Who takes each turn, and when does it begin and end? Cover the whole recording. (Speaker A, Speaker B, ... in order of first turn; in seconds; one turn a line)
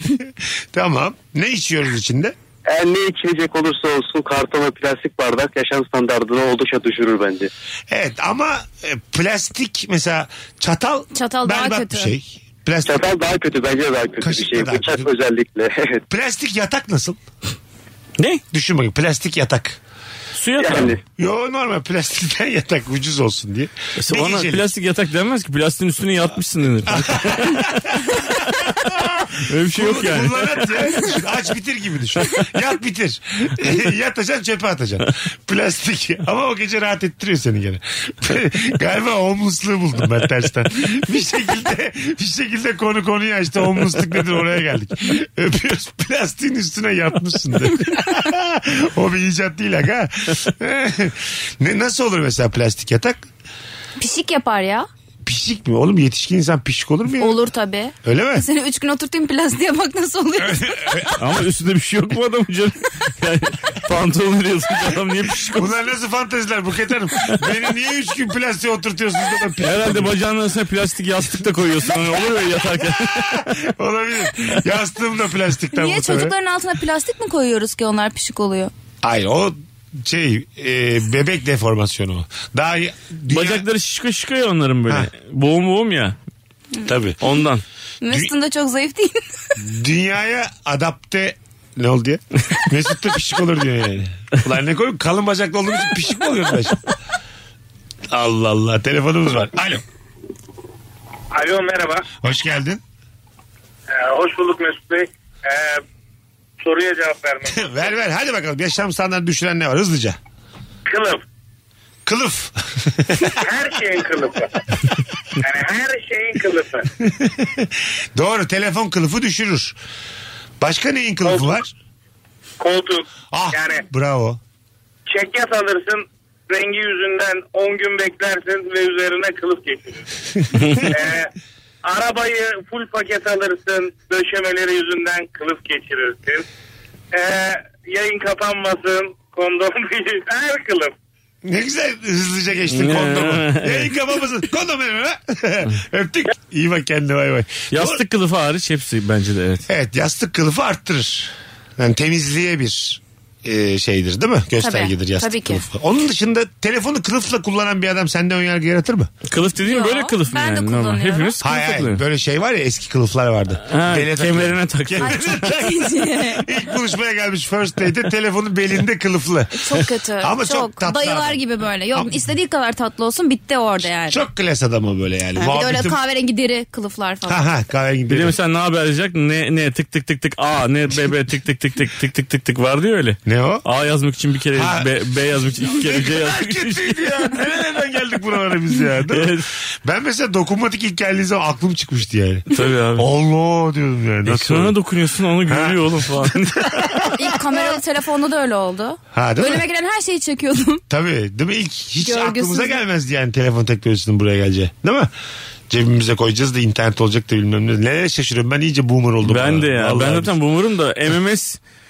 Speaker A: 0.2-2.3
Speaker B: 2.6-7.5
Speaker A: 7.9-13.0
Speaker C: 11.1-12.1
Speaker B: 12.8-16.0
Speaker A: 14.2-15.1
Speaker A: 16.1-17.2
Speaker A: 18.5-19.8
Speaker D: 20.4-20.9
Speaker B: 20.6-21.0
Speaker A: 21.2-24.7
Speaker D: 24.0-28.3
Speaker A: 26.9-53.2
Speaker D: 29.4-30.8
Speaker C: 54.0-54.9
Speaker A: 55.2-57.4
Speaker C: 57.2-61.1
Speaker A: 58.0-58.4
Speaker A: 60.4-61.2
Speaker D: 61.2-65.7
Speaker A: 65.4-70.1
Speaker D: 69.6-73.5
Speaker A: 72.8-76.3
Speaker C: 75.7-78.7
Speaker A: 79.0-83.7
Speaker D: 83.3-86.2
Speaker A: 86.8-87.2
Speaker D: 87.2-87.6
Speaker C: 88.0-89.2
Speaker A: 89.6-96.8
Speaker A: 98.1-99.8
Speaker E: 101.3-102.0
Speaker A: 102.2-102.8
Speaker E: 103.9-105.8
Speaker E: 106.6-107.8
Speaker A: 107.5-110.2
Speaker E: 110.9-111.2
Speaker A: 112.0-113.4
Speaker E: 113.4-114.6
Speaker E: 115.4-116.9
Speaker A: 117.0-119.8
Speaker A: 120.6-121.7
Speaker E: 121.2-121.6
Speaker E: 122.6-123.8
Speaker A: 123.3-124.4
Speaker E: 125.1-130.0
Speaker D: 130.6-130.8
Speaker E: 130.7-131.3
Speaker E: 131.8-136.4
Speaker E: 137.1-140.9
Speaker A: 141.4-148.0
Speaker D: 142.7-143.9
Speaker D: 147.7-149.7
Speaker A: 149.7-159.1
Speaker C: 154.6-155.7
Speaker D: 159.3-162.0
Speaker C: 159.6-161.3
Speaker A: 161.4-171.4
Speaker D: 163.7-165.4
Speaker C: 165.0-166.5
Speaker C: 169.5-174.2
Speaker A: 174.1-176.0
Speaker C: 175.4-177.4
Speaker A: 177.3-178.3
Speaker D: 178.1-187.1
Speaker A: 183.2-183.7
Speaker A: 184.5-185.0
Speaker A: 185.5-194.8
Speaker D: 189.1-189.4
Speaker D: 192.5-193.1
Speaker D: 194.2-197.0
Speaker A: 195.4-197.8
Speaker C: 197.1-200.8
Speaker A: 199.1-199.6
Speaker A: 200.9-205.1
Speaker C: 202.0-202.8
Speaker A: 205.7-210.3
Speaker D: 209.2-211.6